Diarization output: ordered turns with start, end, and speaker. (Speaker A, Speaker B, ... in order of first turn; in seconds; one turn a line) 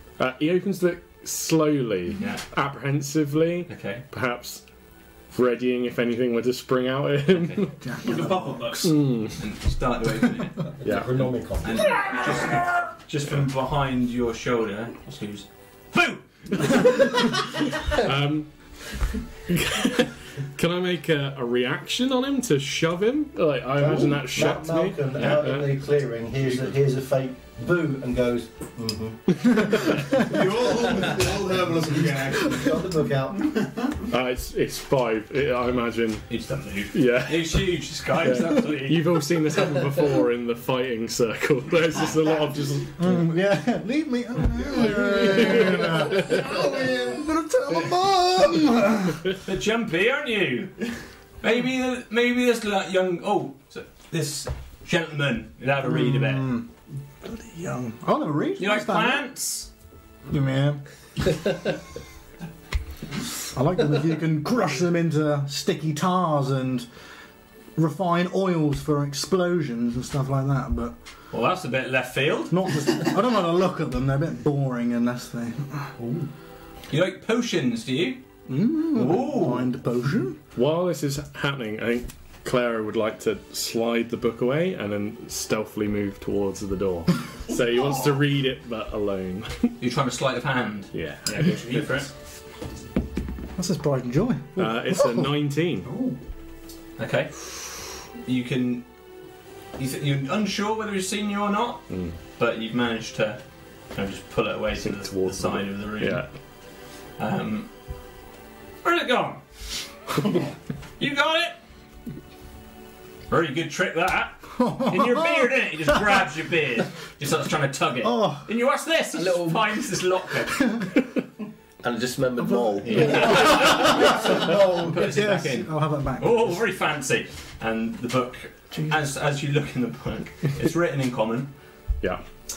Speaker A: 0.2-4.6
Speaker B: 3.7-4.0
Speaker A: 5.3-7.9
Speaker B: 7.3-11.0
Speaker C: 7.8-8.3
Speaker D: 8.0-8.9
Speaker A: 8.8-9.4
Speaker E: 10.8-11.9
Speaker B: 11.6-16.8
Speaker A: 16.6-18.8
Speaker A: 19.5-25.7
Speaker E: 23.7-29.2
Speaker D: 30.1-32.9
Speaker E: 31.5-33.6
Speaker D: 33.4-33.9
Speaker A: 34.1-36.3
Speaker B: 36.3-39.0
Speaker A: 36.9-43.1
Speaker C: 43.0-49.4
Speaker A: 44.8-46.2
Speaker D: 46.3-46.9
Speaker B: 49.4-50.9
Speaker B: 51.4-56.5
Speaker C: 55.8-56.7
Speaker C: 57.2-59.2
Speaker B: 58.6-59.7
Speaker C: 60.3-60.8
Speaker C: 63.5-66.9
Speaker C: 67.8-71.0
Speaker B: 71.3-72.8
Speaker C: 72.5-75.9
Speaker B: 76.9-78.2
Speaker C: 78.5-80.4
Speaker B: 78.9-79.7
Speaker A: 80.5-89.8
Speaker B: 89.8-92.1
Speaker A: 90.9-91.9
Speaker C: 93.6-95.3
Speaker A: 94.6-95.9
Speaker D: 95.9-96.2
Speaker B: 97.0-97.7
Speaker B: 98.2-98.9
Speaker B: 99.8-103.4
Speaker A: 101.9-102.2
Speaker B: 103.9-106.3
Speaker A: 104.8-106.3
Speaker B: 107.2-107.7
Speaker B: 108.8-109.4
Speaker B: 111.0-111.6
Speaker B: 113.3-120.8
Speaker C: 114.6-115.5
Speaker C: 118.0-118.5
Speaker F: 119.1-119.7
Speaker F: 121.8-124.3
Speaker C: 122.4-126.6
Speaker B: 122.8-131.5